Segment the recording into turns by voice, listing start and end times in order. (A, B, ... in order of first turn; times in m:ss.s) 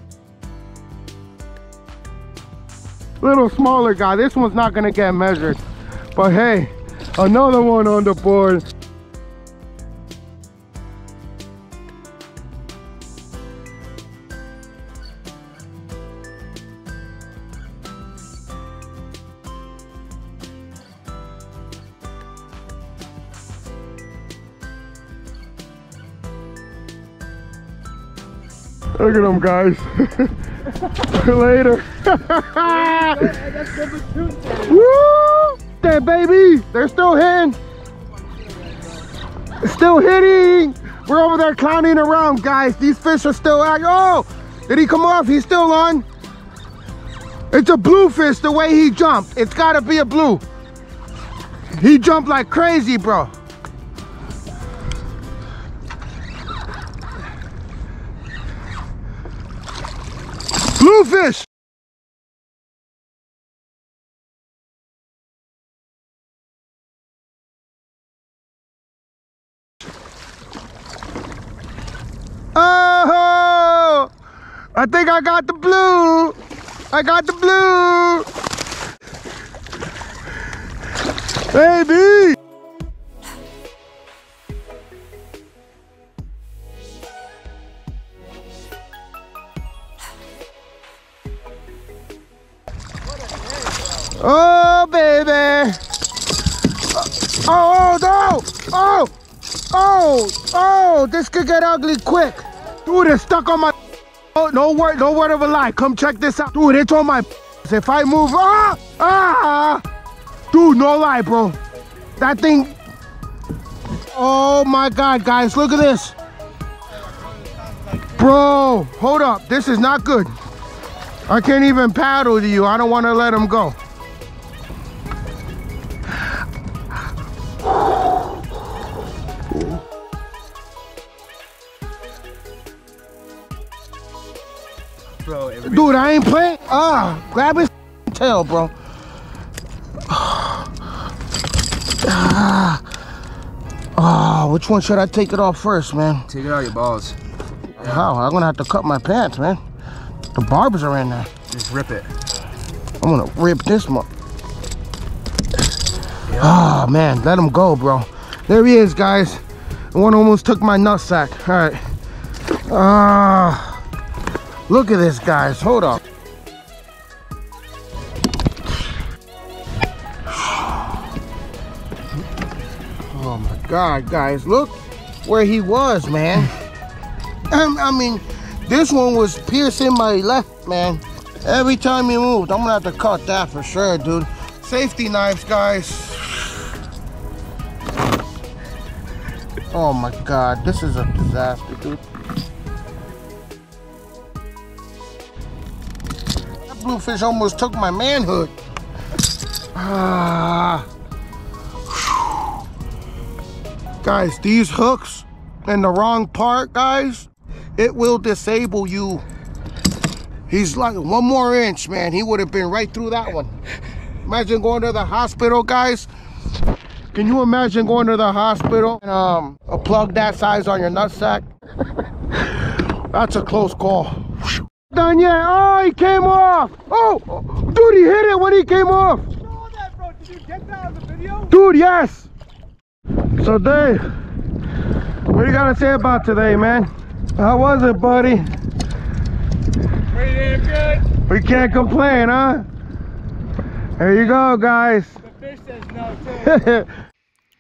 0:03.2-0:05.6 A
0:06.2-0:08.6 A
0:29.0-0:33.3 A
0:32.6-0:34.9 B
0:34.6-0:37.6 A
0:38.3-0:39.0 B
0:39.6-0:46.0 A
0:47.5-0:50.4 A
0:51.7-0:53.3 A
1:00.8-1:01.5 A
1:12.6-1:14.1 A
1:14.8-1:16.4 A
1:16.9-1:18.3 A
1:21.5-1:22.4 A
1:34.1-1:35.8 A
1:36.9-1:39.1 A
1:39.7-1:43.7 A
1:44.3-1:49.8 A
1:50.5-1:51.6 A
1:52.2-1:52.8 A
1:54.1-1:56.2 A
1:58.2-2:00.3 A
2:01.3-2:03.8 A
2:15.2-2:16.0 C
2:15.6-2:18.7 A
2:20.1-2:20.8 A
2:22.0-2:22.9 A
2:24.0-2:26.3 A
2:26.3-2:27.2 C
2:27.8-2:29.6 A
2:27.8-2:28.0 C
2:30.4-2:31.3 A
2:31.5-2:32.1 C
2:33.0-2:34.1 A
2:36.4-2:39.4 A
2:39.9-2:42.0 A
2:42.6-2:43.8 A
2:44.7-2:46.0 A
2:53.1-2:56.5 A
2:57.5-3:06.7 A
3:09.7-3:12.0 A
3:16.6-3:18.5 A
3:19.8-3:20.9 A
3:21.9-3:22.3 A
3:24.0-3:29.2 A
3:30.5-3:33.6 A
3:34.2-3:36.1 A
3:37.1-3:41.5 A
3:42.3-3:49.3 A
3:49.5-3:51.5 B
3:51.5-3:52.3 A
3:53.4-3:54.1 A
3:55.3-3:58.5 A
4:00.2-4:01.0 B
4:01.1-4:02.7 A
4:04.0-4:05.2 A
4:05.3-4:06.5 B
4:06.2-4:06.9 A